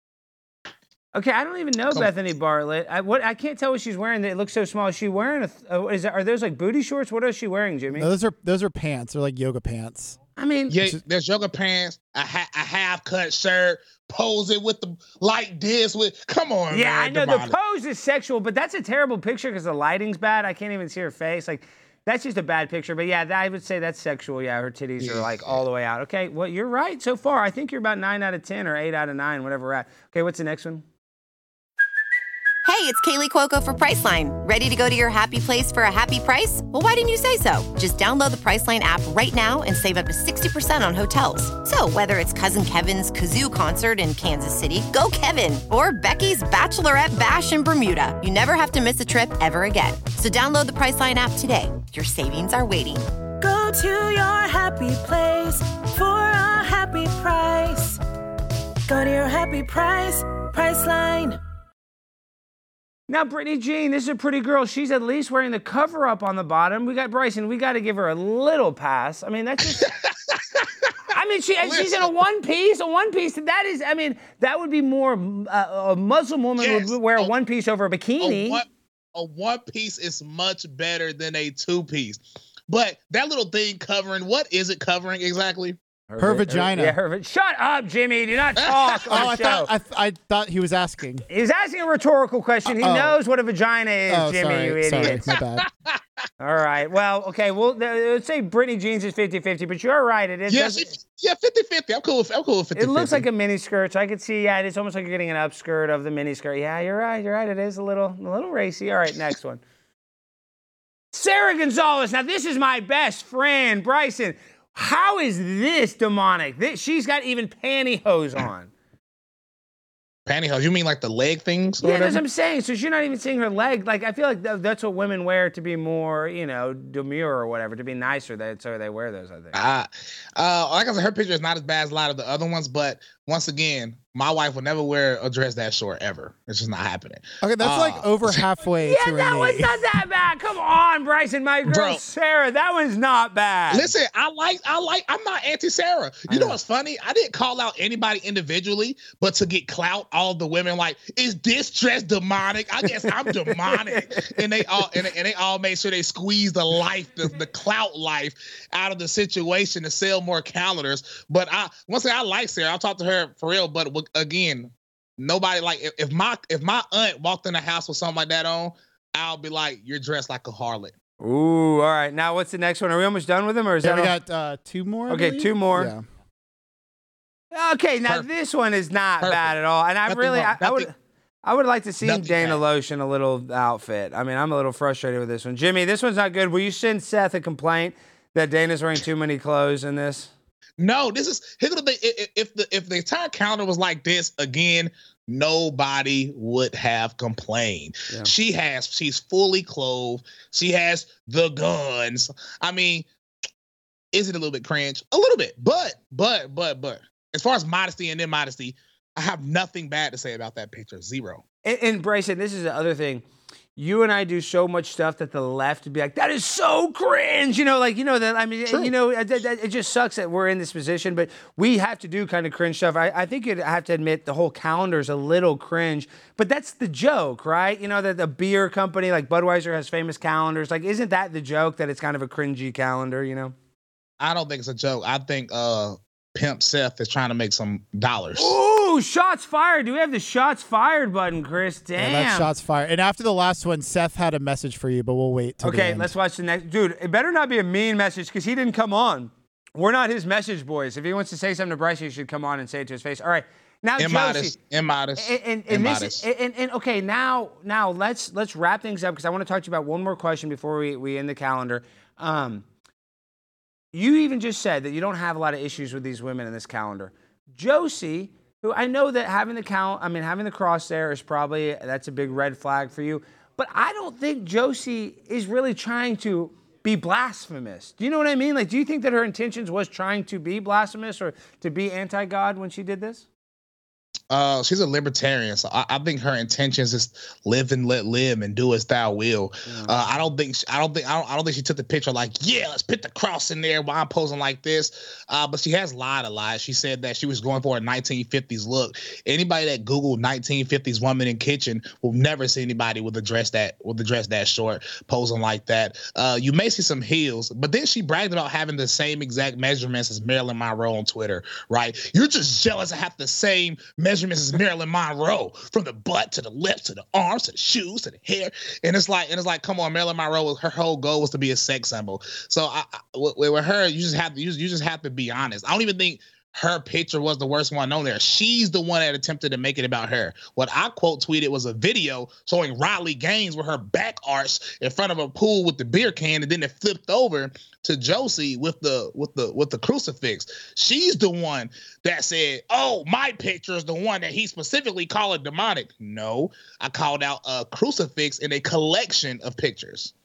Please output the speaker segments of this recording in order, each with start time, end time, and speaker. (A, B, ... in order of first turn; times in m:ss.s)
0:01.1-0:08.1 A
0:07.9-0:10.2 B
0:10.4-0:10.8 A
0:10.7-0:17.6 C
0:16.7-0:30.8 A
0:25.0-0:25.6 C
0:32.6-0:53.1 D
0:53.4-0:58.0 E
0:58.9-1:01.4 E
1:03.1-1:09.9 A
1:09.8-1:11.0 C
1:11.1-1:18.6 A
1:11.6-1:12.1 C
1:16.6-1:17.3 C
1:18.2-1:25.8 C
1:26.1-1:29.7 A
1:26.2-1:27.0 B
1:28.7-1:29.2 C
1:29.1-1:31.2 B
1:31.3-1:35.2 A
1:32.8-1:33.2 B
1:34.1-1:35.7 B
1:35.0-1:36.0 C
1:36.4-1:40.9 A
1:40.5-1:43.2 C
1:42.8-1:49.6 A
1:51.1-1:58.7 A
2:00.3-2:02.2 C
2:01.8-2:09.6 A
2:09.5-2:18.4 C
2:17.4-2:19.8 B
2:18.8-2:24.0 A
2:21.7-2:22.0 C
2:23.7-2:50.9 C
2:26.3-2:26.6 A
2:32.9-2:34.9 A
2:51.2-2:54.1 A
2:53.8-2:56.0 B
2:55.1-2:55.9 A
2:57.5-3:00.9 A
2:59.2-2:59.5 C
3:00.1-3:00.9 C
3:01.4-3:10.3 A
3:02.0-3:02.6 C
3:10.8-3:23.1 C
3:24.1-3:31.4 C
3:31.6-3:33.2 A
3:33.8-3:53.6 A
3:54.2-3:58.6 C
3:58.4-4:02.5 A
4:02.0-4:06.1 B
4:05.6-4:14.6 A
4:14.0-4:16.2 C
4:15.2-4:22.6 A
4:23.9-4:43.2 A
4:44.3-5:50.1 C
4:49.7-4:50.0 A